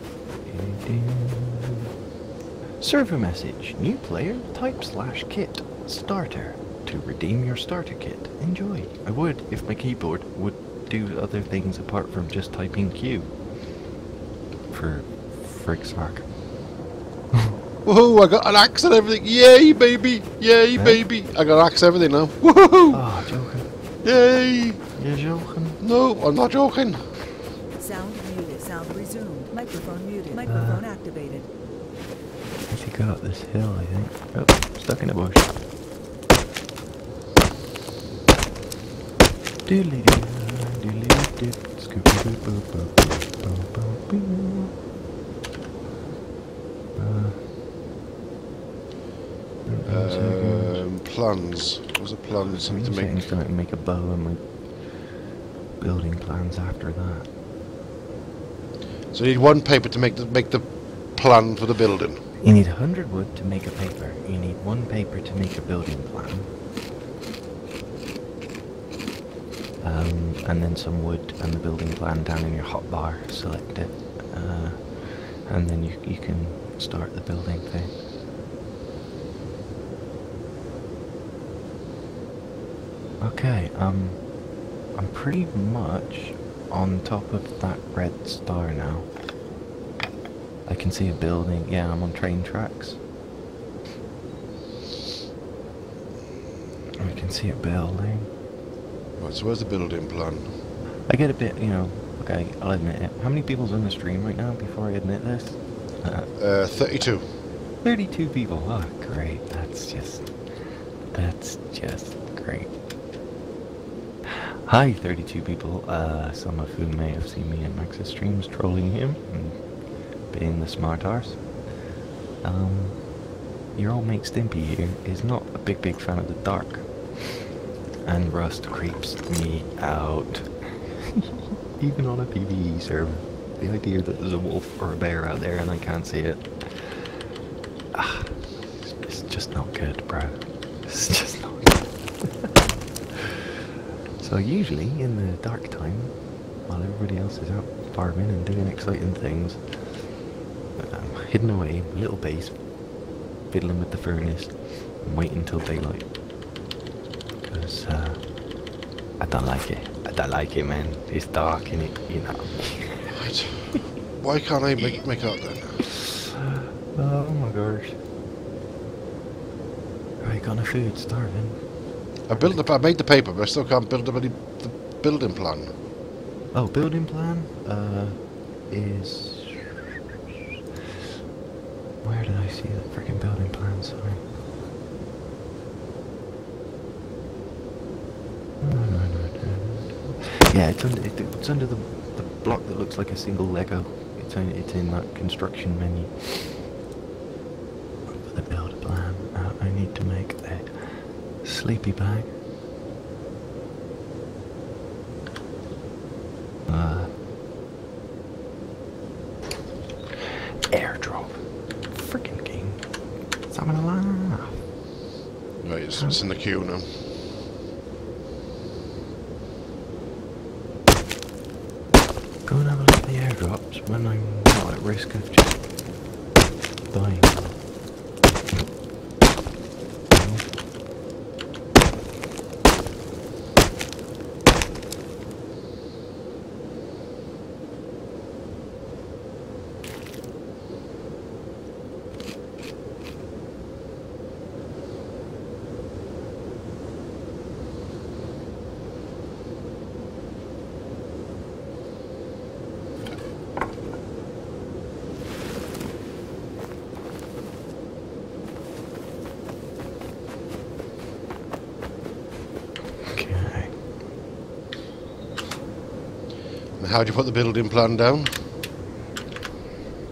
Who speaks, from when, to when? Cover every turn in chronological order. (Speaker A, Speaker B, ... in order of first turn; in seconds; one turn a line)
Speaker A: 0.5-1.9
Speaker A: 2.8-13.3
Speaker A: 14.7-16.3
Speaker B: 17.8-23.0
Speaker A: 22.9-23.7
Speaker B: 24.0-24.8
Speaker A: 24.9-25.8
Speaker B: 25.8-27.0
Speaker C: 27.8-31.5
Speaker A: 30.4-30.9
Speaker A: 32.7-35.5
Speaker A: 39.6-44.7
Speaker A: 47.0-47.4
Speaker A: 49.6-50.8
Speaker B: 49.9-53.3
Speaker A: 52.5-55.1
Speaker A: 55.8-57.3
Speaker B: 59.1-62.2
Speaker A: 62.4-66.5
Speaker A: 69.8-78.0
Speaker A: 83.2-84.3
Speaker A: 84.9-89.1
Speaker A: 90.7-93.0
Speaker A: 97.0-98.3
Speaker B: 99.2-100.5
Speaker A: 101.1-106.3
Speaker B: 106.4-107.2
Speaker A: 107.8-110.5
Speaker A: 111.1-112.7
Speaker A: 114.2-119.6
Speaker A: 120.3-121.6
Speaker A: 122.4-123.1
Speaker A: 123.7-127.5
Speaker A: 128.0-137.2
Speaker A: 137.9-142.5
Speaker A: 144.2-150.1
Speaker A: 150.8-152.6
Speaker A: 153.5-156.1
Speaker A: 157.5-158.3
Speaker A: 159.2-163.2
Speaker B: 163.1-165.8
Speaker A: 165.9-168.0
Speaker A: 170.2-171.7
Speaker B: 172.3-175.7
Speaker A: 176.5-179.8
Speaker A: 182.0-184.2
Speaker A: 188.6-196.6
Speaker A: 198.1-202.3
Speaker A: 206.7-207.1
Speaker A: 210.7-212.8
Speaker A: 213.5-214.6
Speaker B: 215.6-216.9
Speaker A: 222.4-225.6
Speaker A: 226.9-227.6
Speaker A: 230.1-230.4
Speaker A: 263.1-263.8
Speaker B: 266.8-268.4